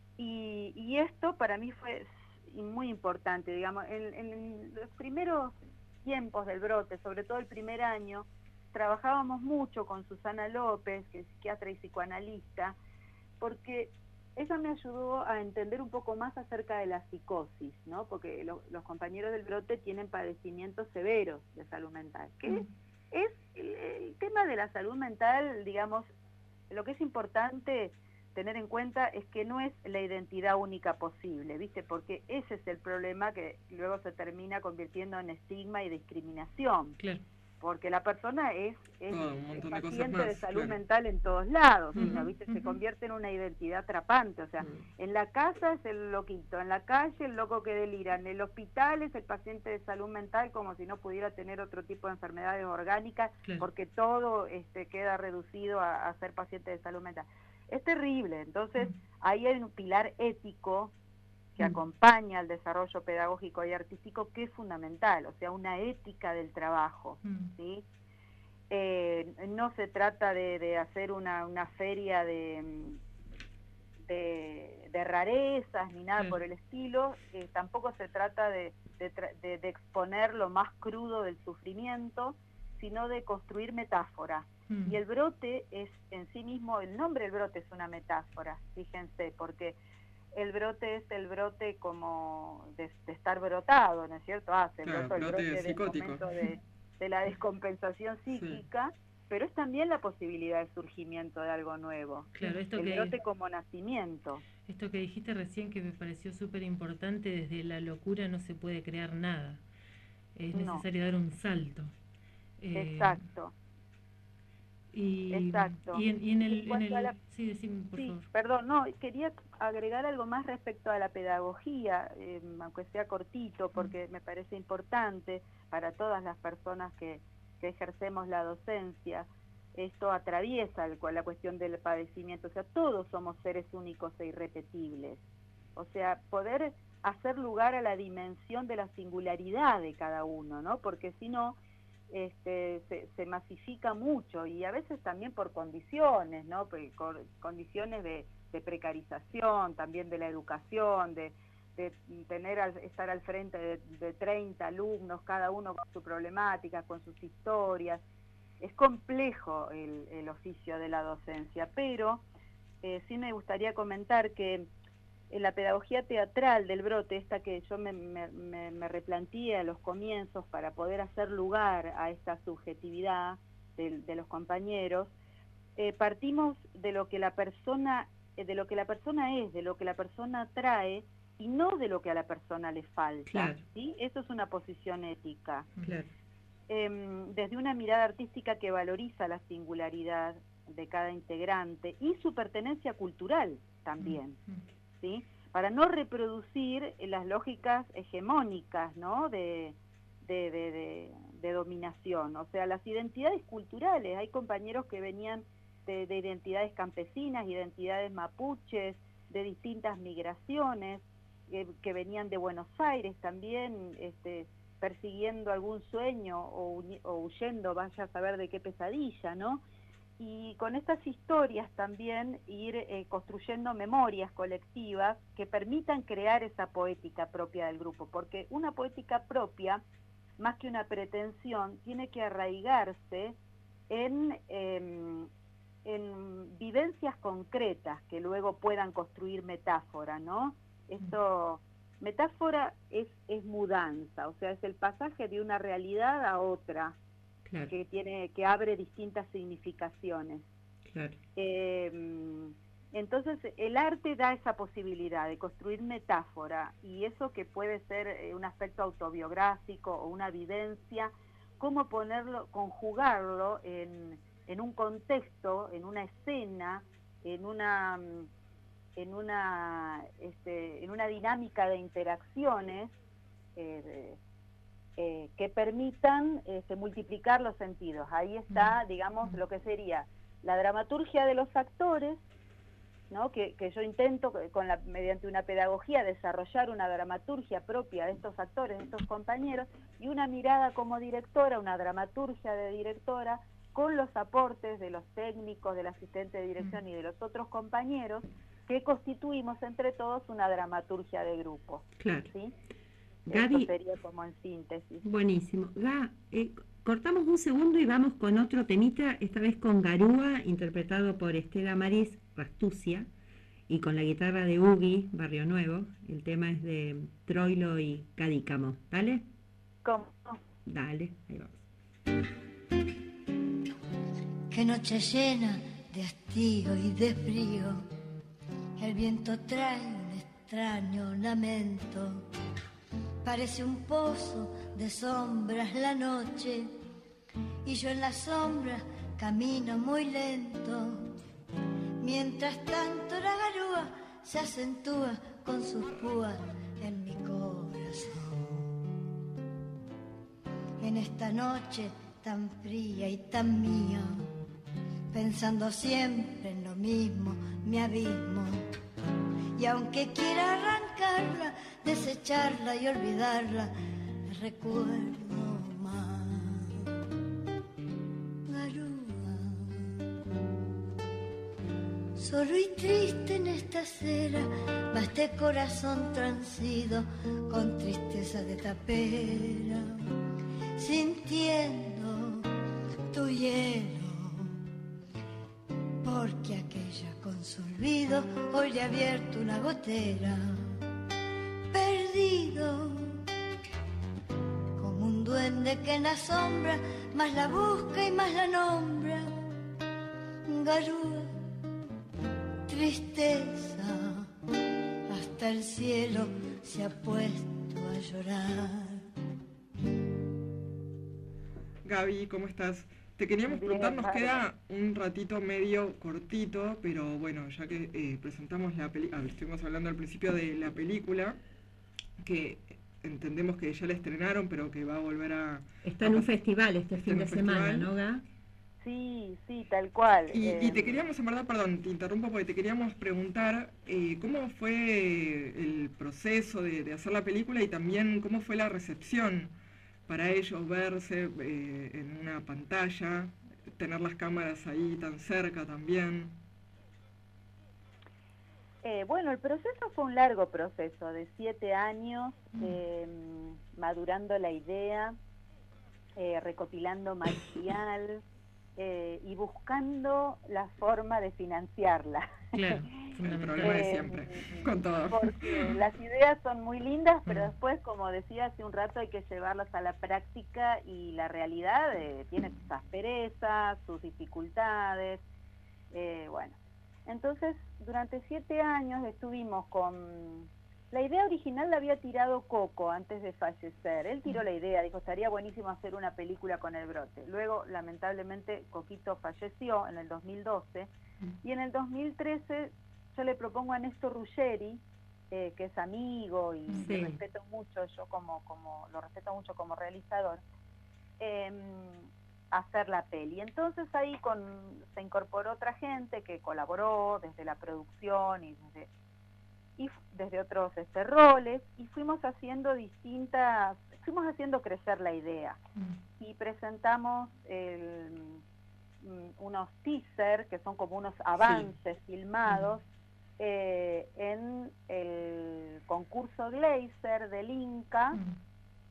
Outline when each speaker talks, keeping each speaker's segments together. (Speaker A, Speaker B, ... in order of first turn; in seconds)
Speaker A: 0.2-12.8, 13.4-26.1, 26.7-37.0, 37.6-60.9, 61.5-67.8, 68.7-73.0, 74.1-89.8, 90.3-104.4, 110.5-110.8, 112.7-113.5, 115.3-117.1, 117.9-135.2, 135.8-141.6, 142.1-158.0, 158.6-162.2, 162.8-164.7, 165.3-175.1, 175.8-185.7, 186.7-194.4, 195.0-219.6, 220.2-229.8, 230.4-233.4, 233.9-235.3, 235.8-246.9, 247.7-250.4, 251.3-268.3, 268.9-272.9, 273.6-274.2, 275.0-282.2, 283.1-302.5, 303.3-305.0, 319.8-320.4, 413.5-414.4, 428.8-431.0, 448.8-455.2, 456.1-458.2, 458.8-463.1, 463.6-475.2, 475.9-490.9, 491.4-500.4, 501.2-508.9, 509.8-515.6, 516.2-518.4, 519.0-522.8, 523.4-528.2
Speaker B: 39.1-40.8, 94.8-96.2, 98.3-98.6, 411.8-421.4, 422.2-426.2, 427.0-427.9, 430.3-439.5, 440.1-446.3, 463.2-465.8
Speaker C: 42.0-42.8, 67.2-67.5, 84.7-85.0, 102.3-103.1, 104.7-109.6, 110.3-111.9, 112.6-113.2, 114.9-118.2, 194.0-194.6, 278.5-279.4, 462.5-464.0, 467.3-467.5
Speaker D: 183.3-183.6, 185.8-186.1, 247.5-247.7, 250.9-251.2, 302.0-302.3, 303.3-303.7, 305.0-313.1, 313.7-319.2, 320.6-321.6, 425.8-428.2, 496.8-497.2
Speaker E: 324.5-327.8, 328.8-332.2, 333.2-336.8, 337.6-341.1, 342.0-348.7, 350.8-354.3, 355.1-358.7, 359.6-363.7, 364.2-366.8, 368.5-369.9, 372.1-380.0, 380.8-382.5, 383.1-384.6, 386.0-390.6, 391.7-393.2, 394.8-399.3, 400.4-401.4, 402.7-404.3, 405.1-409.1